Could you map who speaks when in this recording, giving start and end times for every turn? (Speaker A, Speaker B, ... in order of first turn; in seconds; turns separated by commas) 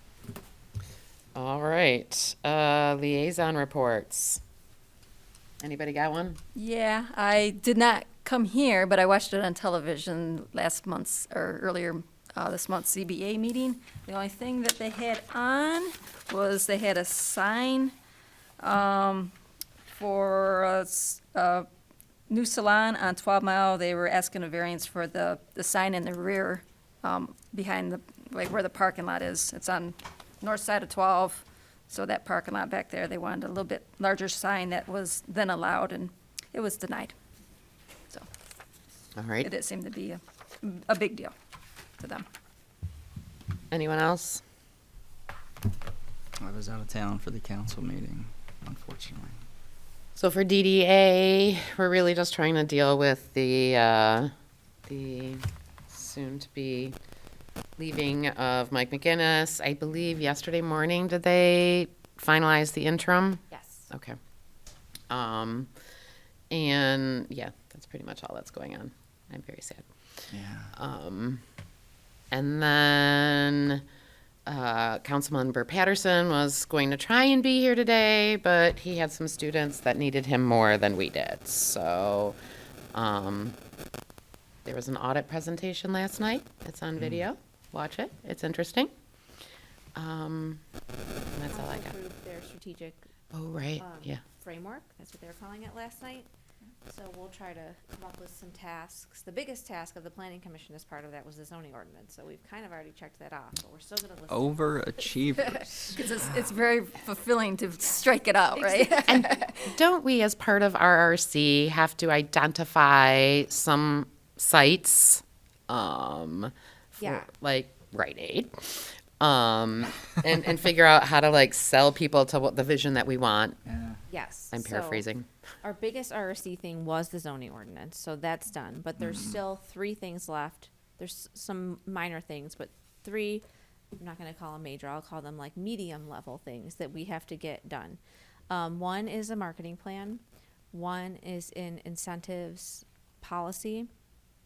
Speaker A: 1.3-4.4, Speaker A: 5.6-6.4, Speaker B: 6.5-17.9, Speaker B: 18.6-19.3, Speaker B: 19.9-21.7, Speaker B: 22.3-37.1, Speaker A: 39.1-39.5, Speaker B: 39.4-41.3, Speaker B: 42.0-42.2, Speaker A: 43.7-44.4, Speaker C: 46.4-49.4, Speaker A: 50.1-54.3, Speaker A: 54.9-57.0, Speaker A: 57.8-64.2, Speaker D: 63.5-63.9, Speaker A: 65.1-65.7, Speaker A: 66.5-69.8, Speaker C: 70.3-70.7, Speaker A: 70.7-71.4, Speaker A: 72.3-73.8, Speaker A: 74.5-82.4, Speaker A: 82.9-83.5, Speaker A: 84.6-88.9, Speaker A: 89.9-90.6, Speaker A: 91.3-92.0, Speaker D: 91.5-93.0, Speaker A: 93.3-94.2, Speaker D: 93.8-96.3, Speaker D: 96.9-106.0, Speaker C: 104.3-105.6, Speaker B: 105.9-109.7, Speaker D: 108.5-109.2, Speaker A: 109.1-123.6, Speaker D: 117.0-117.3, Speaker C: 123.7-124.0, Speaker D: 124.1-125.1, Speaker A: 124.5-125.3, Speaker D: 125.6-133.4, Speaker D: 134.0-143.9